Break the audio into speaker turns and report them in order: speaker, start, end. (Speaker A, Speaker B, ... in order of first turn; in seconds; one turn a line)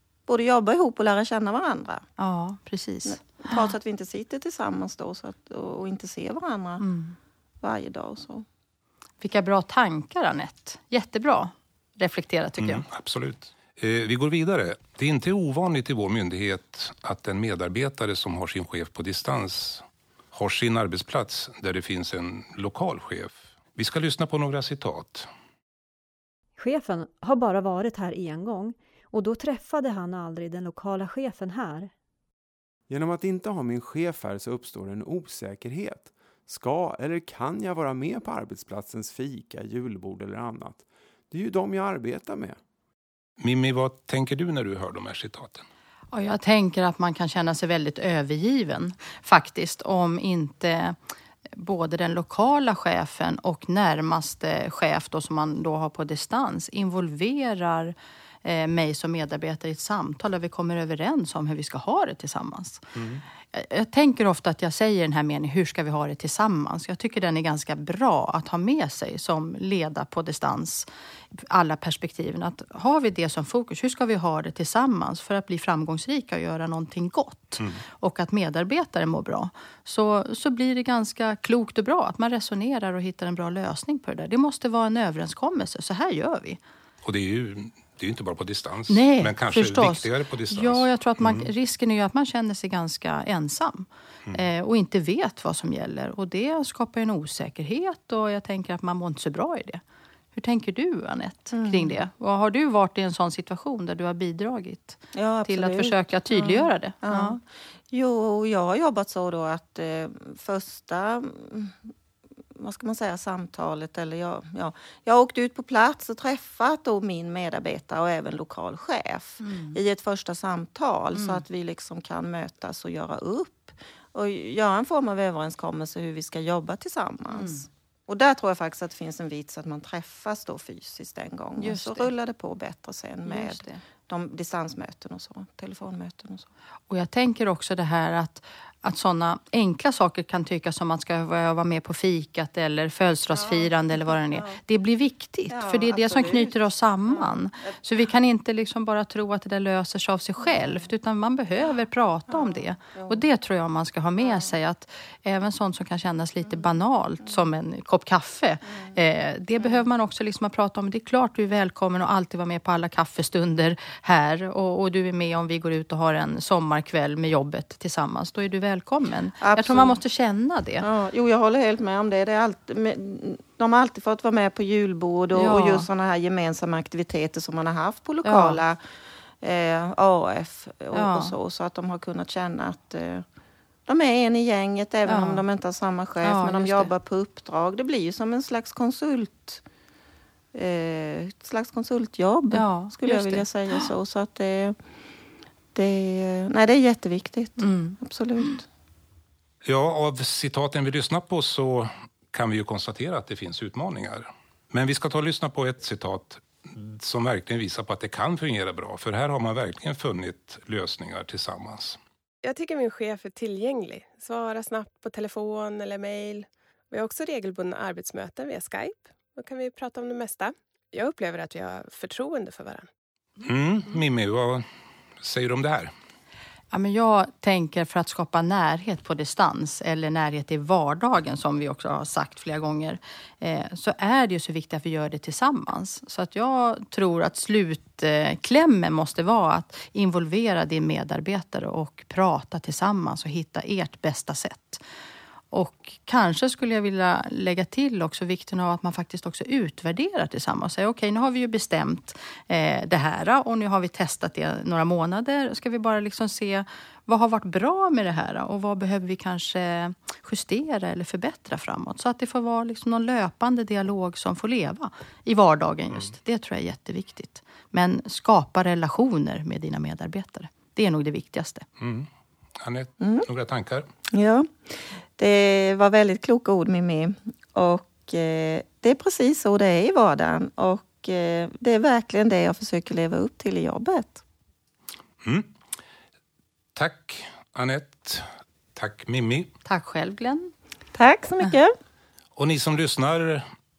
Speaker A: 0.3-2.0
Speaker B: 2.2-3.7
Speaker A: 3.0-6.8
Speaker B: 6.8-7.2
Speaker A: 7.6-8.4
Speaker B: 9.2-12.9
Speaker C: 12.6-25.3
Speaker D: 26.6-31.9
Speaker E: 32.9-42.6
Speaker C: 43.4-45.6
Speaker B: 46.1-51.0
Speaker B: 51.6-62.8
Speaker C: 63.0-63.2
Speaker B: 63.5-86.6
Speaker C: 87.0-91.5
Speaker B: 88.9-99.8
Speaker B: 100.3-107.4
Speaker A: 101.5-102.0
Speaker A: 105.1-111.8
Speaker A: 112.6-136.5
Speaker B: 119.4-119.8
Speaker B: 121.1-121.4
Speaker B: 127.3-127.6
Speaker B: 131.6-132.1
Speaker B: 133.2-133.8
Speaker B: 136.9-170.9
Speaker A: 143.3-144.6
Speaker A: 145.5-147.4
Speaker A: 150.5-150.9
Speaker A: 152.3-153.2
Speaker A: 154.2-154.6
Speaker A: 169.4-169.9
Speaker A: 170.8-178.8
Speaker B: 175.3-175.9
Speaker B: 178.2-178.6
Speaker A: 179.4-183.2
Speaker B: 180.9-181.4
Speaker A: 183.9-189.6
Speaker B: 185.1-185.4
Speaker B: 186.2-186.9
Speaker A: 190.5-194.8
Speaker B: 192.5-193.9
Speaker A: 195.7-198.7
Speaker B: 197.6-198.5
Speaker C: 199.6-212.0
Speaker F: 212.4-222.9
Speaker C: 223.4-224.6
Speaker C: 225.2-225.9
Speaker B: 226.7-244.8
Speaker B: 245.5-271.6
Speaker C: 271.8-272.1
Speaker C: 272.6-273.9
Speaker A: 273.0-273.3
Speaker A: 274.1-274.5
Speaker A: 275.2-284.2
Speaker C: 285.2-285.5
Speaker C: 286.8-289.5
Speaker B: 289.7-290.5
Speaker A: 290.9-291.7
Speaker C: 292.4-293.4